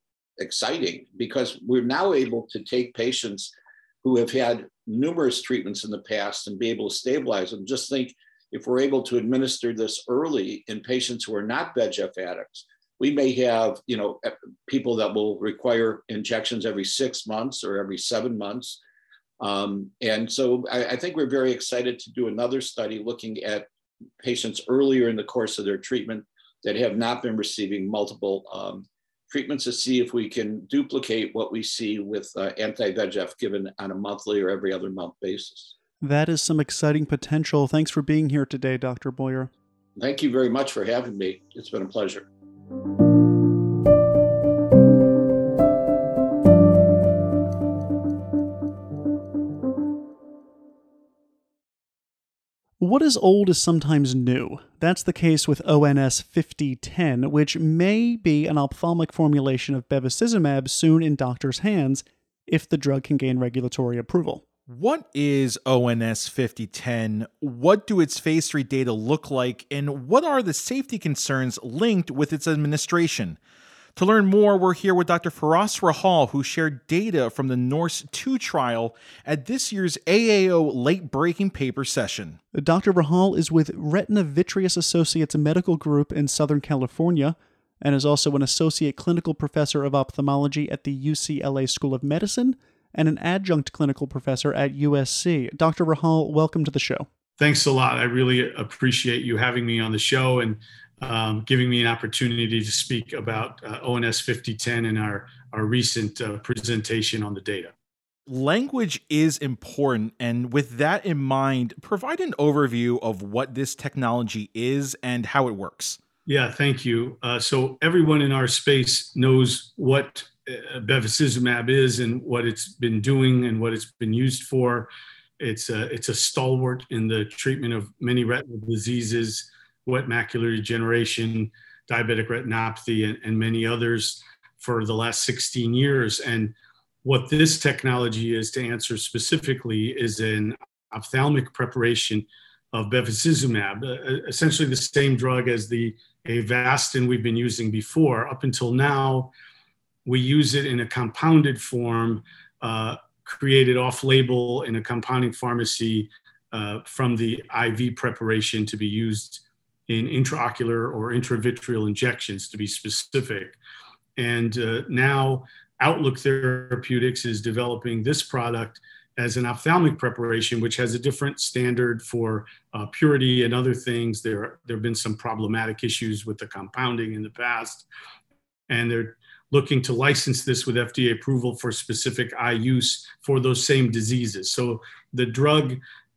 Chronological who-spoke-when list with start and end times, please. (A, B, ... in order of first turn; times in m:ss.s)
0:00.4-0:18.8 A
0:19.4-0:23.7 A
0:24.2-0:35.7 A
0:36.0-0:39.5 B
0:40.0-0:42.3 A
0:52.8-1:04.4 B
1:04.7-1:13.4 C
1:14.0-1:22.4 C
1:22.5-1:37.1 B
1:37.4-1:47.7 D
1:48.3-1:56.0 C
1:56.3-2:04.9 D
2:05.4-2:29.3 D
2:30.0-2:43.6 D
2:44.2-2:57.9 D
2:58.7-3:05.8 D